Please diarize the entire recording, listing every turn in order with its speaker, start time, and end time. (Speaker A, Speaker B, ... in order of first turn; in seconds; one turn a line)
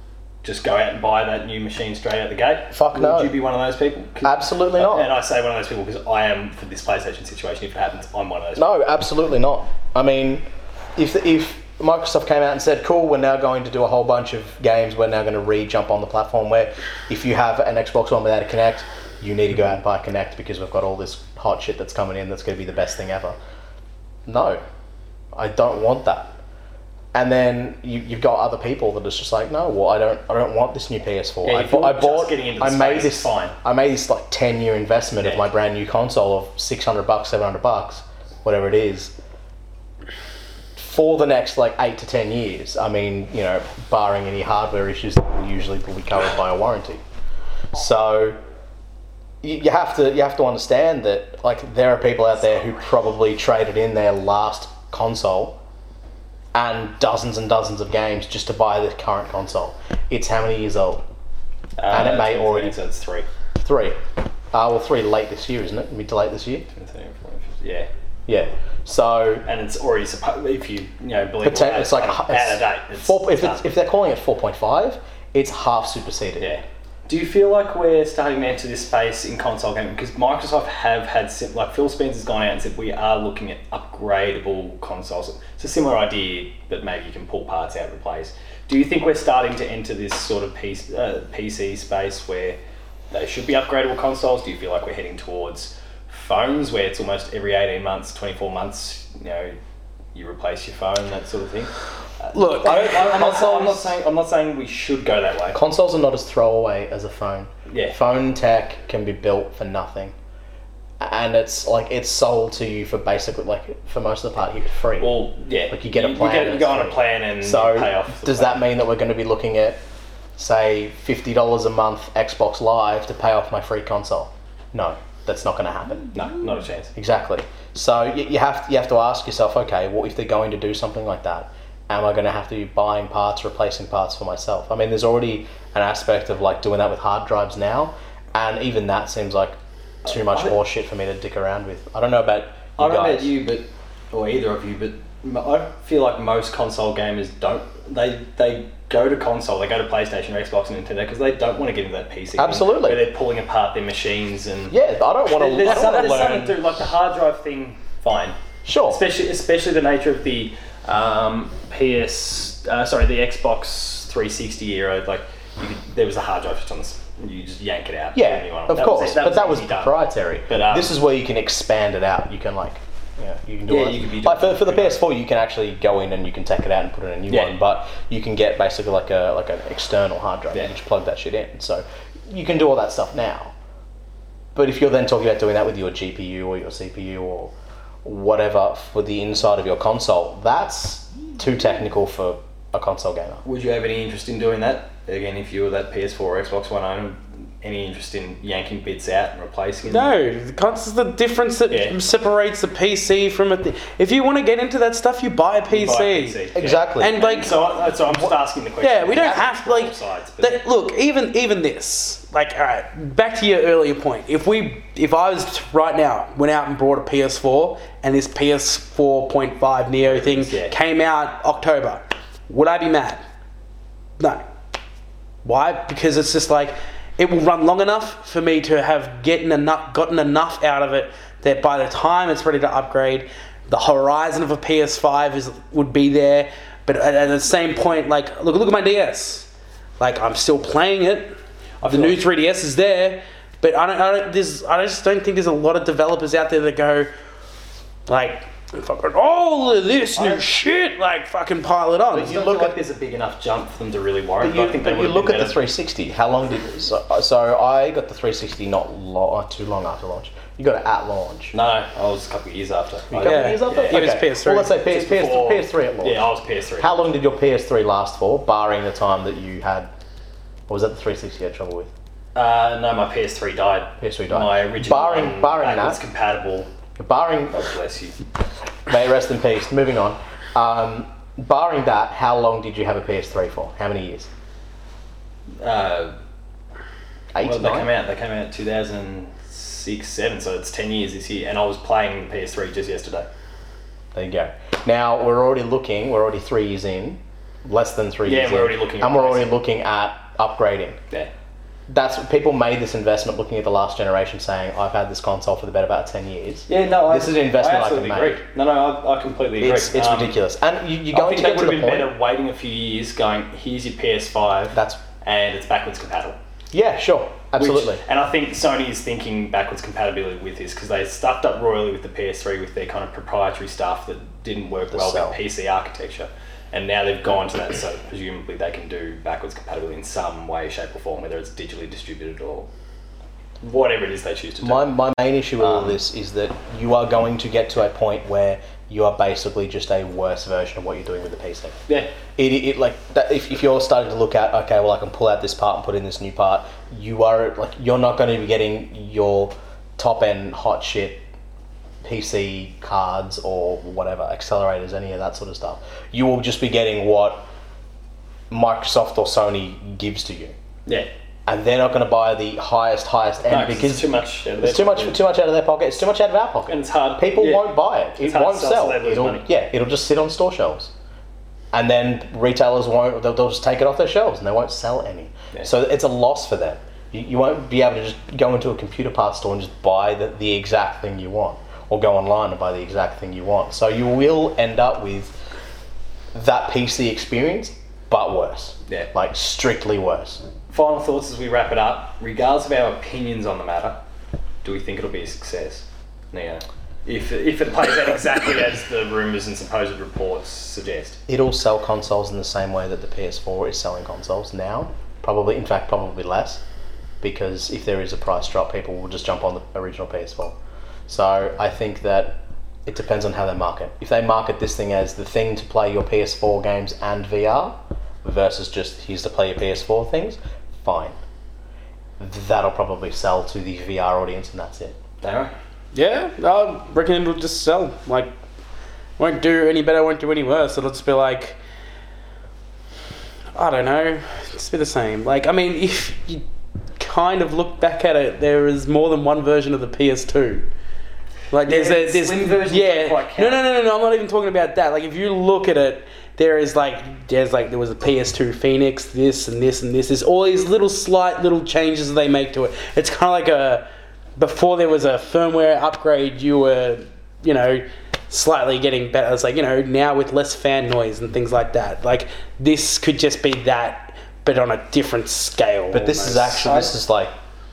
Speaker A: 0.4-8.8
Speaker B: 2.7-3.4
Speaker B: 4.2-5.1
Speaker B: 8.6-10.4
Speaker B: 11.0-23.4
Speaker B: 24.3-24.6
Speaker B: 25.3-26.4
Speaker B: 27.1-39.1
Speaker A: 31.4-33.5
Speaker A: 35.2-35.5
Speaker B: 40.8-47.0
Speaker B: 47.7-48.4
Speaker B: 49.4-55.6
Speaker B: 56.5-61.0
Speaker A: 61.8-63.3
Speaker B: 61.9-62.8
Speaker B: 63.6-64.0
Speaker B: 64.5-66.7
Speaker A: 66.7-67.9
Speaker B: 68.3-69.5
Speaker A: 69.5-73.6
Speaker B: 71.4-76.6
Speaker A: 76.4-92.6
Speaker A: 93.1-99.6
Speaker A: 100.1-101.7
Speaker A: 102.2-105.6
Speaker C: 102.3-103.3
Speaker B: 102.7-104.0
Speaker B: 105.5-110.1
Speaker A: 107.7-108.0
Speaker B: 111.0-115.2
Speaker A: 115.0-118.6
Speaker B: 115.7-119.8
Speaker B: 120.4-126.1
Speaker A: 126.1-126.9
Speaker B: 127.0-143.3
Speaker A: 140.1-140.6
Speaker A: 142.8-154.8
Speaker B: 152.4-153.0
Speaker B: 154.7-156.6
Speaker A: 155.3-169.9
Speaker C: 155.7-156.3
Speaker B: 158.7-159.0
Speaker B: 168.1-183.5
Speaker A: 170.5-170.9
Speaker A: 173.7-175.0
Speaker A: 177.3-177.6
Speaker B: 184.6-193.4
Speaker A: 193.4-200.1
Speaker C: 199.9-206.4
Speaker A: 201.7-202.0
Speaker A: 205.7-210.6
Speaker B: 206.5-207.2
Speaker C: 207.0-207.6
Speaker C: 208.8-223.2
Speaker B: 209.1-209.6
Speaker A: 220.1-220.7
Speaker C: 224.2-224.5
Speaker C: 225.4-241.3
Speaker A: 241.8-242.2
Speaker C: 241.8-247.1
Speaker C: 248.1-252.4
Speaker A: 250.2-250.4
Speaker B: 252.1-252.8
Speaker A: 252.1-255.6
Speaker B: 254.4-261.5
Speaker A: 261.5-267.0
Speaker B: 263.1-266.3
Speaker C: 263.2-264.7
Speaker B: 266.8-269.9
Speaker B: 270.7-271.9
Speaker A: 272.4-276.7
Speaker B: 274.0-276.0
Speaker B: 277.0-277.7
Speaker A: 277.5-278.2
Speaker B: 278.9-284.3
Speaker A: 285.6-286.2
Speaker B: 287.4-287.9
Speaker A: 287.4-293.3
Speaker B: 294.1-301.0
Speaker A: 298.2-299.5
Speaker B: 301.9-308.4
Speaker A: 306.7-310.4
Speaker B: 309.6-312.1
Speaker A: 311.1-316.4
Speaker B: 314.7-315.0
Speaker B: 316.7-318.0
Speaker A: 317.6-332.7
Speaker B: 324.9-325.4
Speaker A: 333.6-334.9
Speaker B: 334.6-341.8
Speaker A: 335.6-336.0
Speaker A: 341.9-342.1
Speaker B: 342.3-351.2
Speaker B: 352.0-357.5
Speaker B: 358.5-360.6
Speaker B: 361.5-370.9
Speaker A: 363.5-365.2
Speaker A: 366.7-369.5
Speaker B: 371.7-385.4
Speaker B: 386.3-390.4
Speaker A: 390.7-394.0
Speaker A: 394.6-401.2
Speaker B: 401.3-406.6
Speaker B: 407.2-410.6
Speaker B: 411.1-421.2
Speaker B: 422.2-425.0
Speaker A: 425.2-425.5
Speaker C: 425.9-428.3
Speaker C: 429.2-431.6
Speaker C: 433.6-436.4
Speaker C: 437.0-440.7
Speaker C: 441.5-453.9
Speaker A: 441.6-443.6
Speaker C: 454.4-466.9
Speaker B: 465.9-467.3
Speaker A: 466.6-466.9